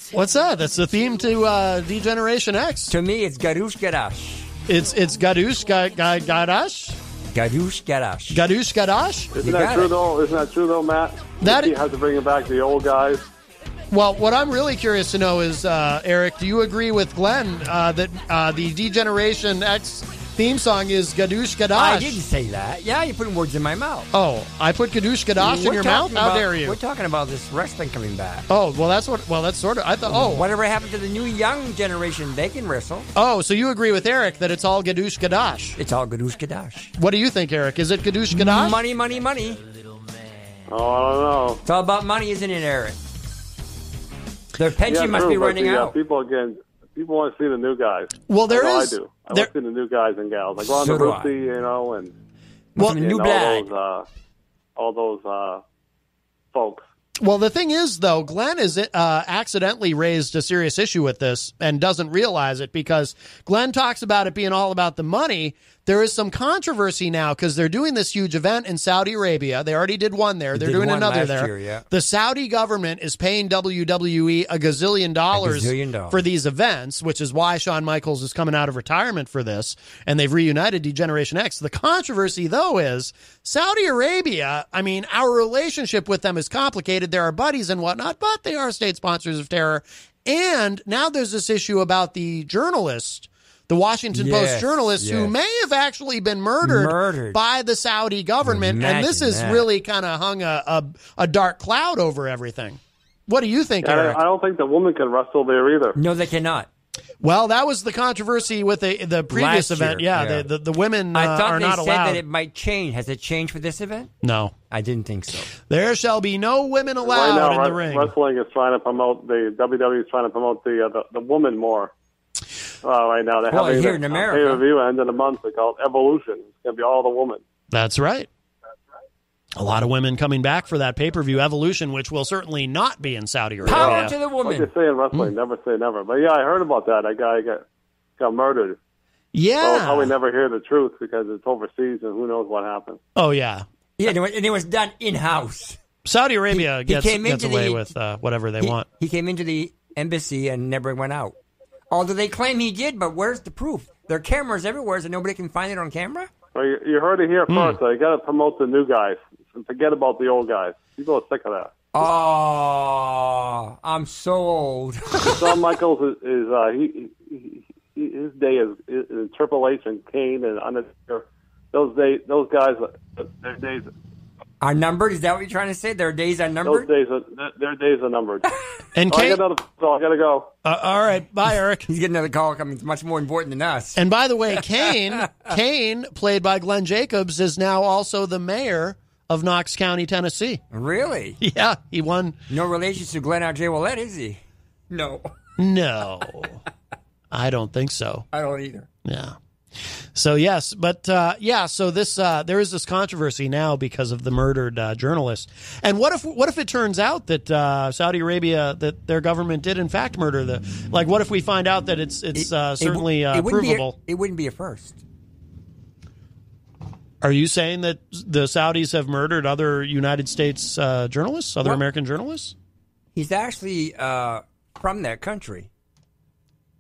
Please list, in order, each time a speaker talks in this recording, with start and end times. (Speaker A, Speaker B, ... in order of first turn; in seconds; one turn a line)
Speaker A: 0.1-2.9
Speaker B: 2.9-4.6
Speaker A: 4.7-7.0
Speaker B: 7.3-8.4
Speaker A: 8.3-9.4
Speaker C: 9.3-13.2
Speaker B: 9.4-9.9
Speaker A: 11.4-11.7
Speaker A: 13.9-22.2
Speaker B: 21.7-24.1
Speaker A: 24.1-26.8
Speaker B: 25.4-28.5
Speaker A: 28.5-30.5
Speaker B: 30.1-33.1
Speaker A: 33.1-35.8
Speaker B: 35.8-36.9
Speaker A: 37.0-38.8
Speaker B: 38.3-39.6
Speaker C: 40.7-41.6
Speaker B: 41.6-43.0
Speaker B: 44.5-46.0
Speaker C: 44.9-52.1
Speaker A: 48.3-49.5
Speaker B: 50.6-51.4
Speaker B: 52.8-53.7
Speaker C: 52.8-54.0
Speaker C: 54.8-55.6
Speaker C: 56.5-56.8
Speaker A: 57.2-104.2
Speaker B: 70.5-71.8
Speaker B: 75.3-76.2
Speaker B: 94.1-95.3
Speaker B: 96.6-97.4
Speaker B: 98.4-99.7
Speaker C: 103.8-106.0
Speaker B: 105.9-106.7
Speaker A: 107.2-112.2
Speaker B: 109.3-110.5
Speaker B: 111.1-114.1
Speaker A: 114.2-114.5
Speaker B: 114.7-115.5
Speaker A: 115.6-118.1
Speaker C: 117.0-121.9
Speaker C: 122.8-127.4
Speaker B: 123.5-124.6
Speaker A: 127.7-128.3
Speaker A: 129.6-134.1
Speaker B: 133.7-134.7
Speaker C: 133.7-137.6
Speaker C: 138.2-138.8
Speaker A: 139.3-140.1
Speaker C: 139.6-143.0
Speaker A: 143.2-143.7
Speaker B: 144.0-145.8
Speaker A: 146.1-148.9
Speaker B: 146.5-147.9
Speaker B: 148.6-151.4
Speaker B: 151.9-156.3
Speaker C: 156.5-161.7
Speaker A: 157.5-157.8
Speaker B: 161.9-165.6
Speaker C: 165.4-173.9
Speaker B: 174.6-176.9
Speaker C: 176.7-178.4
Speaker A: 178.9-179.4
Speaker C: 179.1-180.5
Speaker A: 180.6-181.9
Speaker B: 181.9-184.0
Speaker A: 184.0-190.6
Speaker B: 184.5-185.5
Speaker B: 190.7-191.4
Speaker A: 191.4-192.4
Speaker B: 192.5-195.3
Speaker A: 195.6-196.6
Speaker A: 197.3-198.3
Speaker B: 198.3-198.9
Speaker A: 199.1-214.0
Speaker B: 212.3-215.0
Speaker A: 217.2-222.6
Speaker B: 223.1-225.7